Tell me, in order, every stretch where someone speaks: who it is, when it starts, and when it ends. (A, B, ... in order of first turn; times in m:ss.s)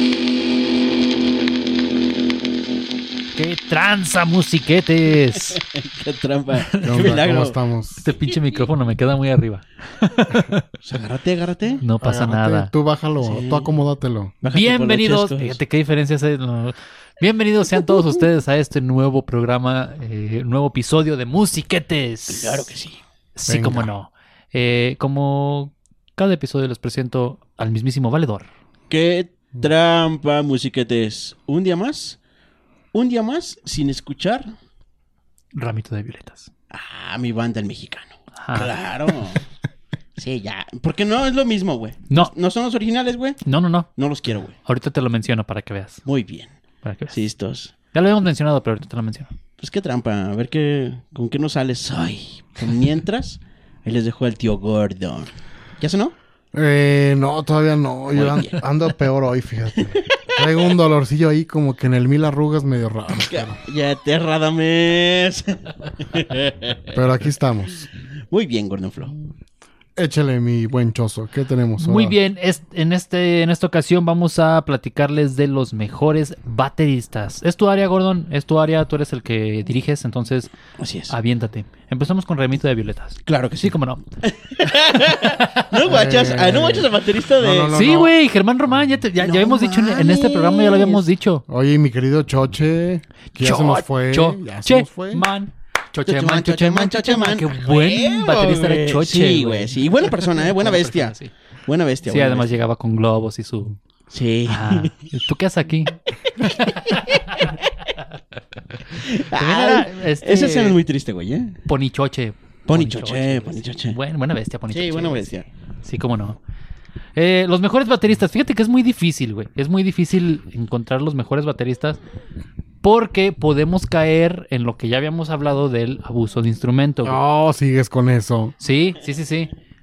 0:03.3-0:05.6 A
0:05.6-0:07.6 B
0:06.7-0:07.0 A
0:06.8-0:08.0 C
0:08.0-0:10.6 A
0:10.8-0:11.8 B
0:11.8-0:12.7 A
0:12.0-0:14.3 C
0:13.2-0:13.7 B
0:14.4-0:15.6 B
0:14.5-0:22.7 A
0:22.3-0:23.0 B
0:23.3-0:28.5 A
0:23.5-0:23.9 C
0:28.9-0:32.2 B
0:32.9-0:34.5 B
0:35.5-0:36.5 A
0:36.7-0:39.4 B
0:38.4-0:38.7 A
0:40.2-0:43.4 B
0:43.4-0:43.9 A
0:44.0-0:44.5 B
0:44.6-0:46.0 A
0:46.0-0:46.5 B
0:46.8-0:47.1 A
0:47.1-0:47.7 B
0:47.9-0:49.3 A
0:49.6-0:56.1 B
0:56.5-1:03.6 C
0:58.1-0:58.6 B
0:59.8-1:00.5 B
1:03.2-1:06.9 B
1:06.9-1:07.9 C
1:08.3-1:09.1 B
1:10.0-1:12.2 C
1:11.8-1:20.5 A
1:20.8-1:21.1 B
1:21.1-1:24.0 A
1:23.2-1:27.9 B
1:25.2-1:25.8 A
1:25.8-1:28.1 C
1:27.7-1:31.4 A
1:29.2-1:31.0 B
1:31.5-1:35.2 C
1:33.4-1:41.3 A
1:36.0-1:41.2 B
1:41.7-1:42.5 B
1:42.0-1:43.7 A
1:44.1-1:44.9 B
1:44.4-1:47.5 A
1:46.4-1:47.6 B
1:48.9-1:51.6 B
1:49.3-1:50.8 A
1:51.7-1:55.3 A
1:52.7-1:54.0 B
1:54.7-1:55.4 B
1:55.8-1:56.4 A
1:57.2-2:02.0 A
2:02.8-2:07.2 A
2:07.0-2:08.5 C
2:08.6-2:09.5 A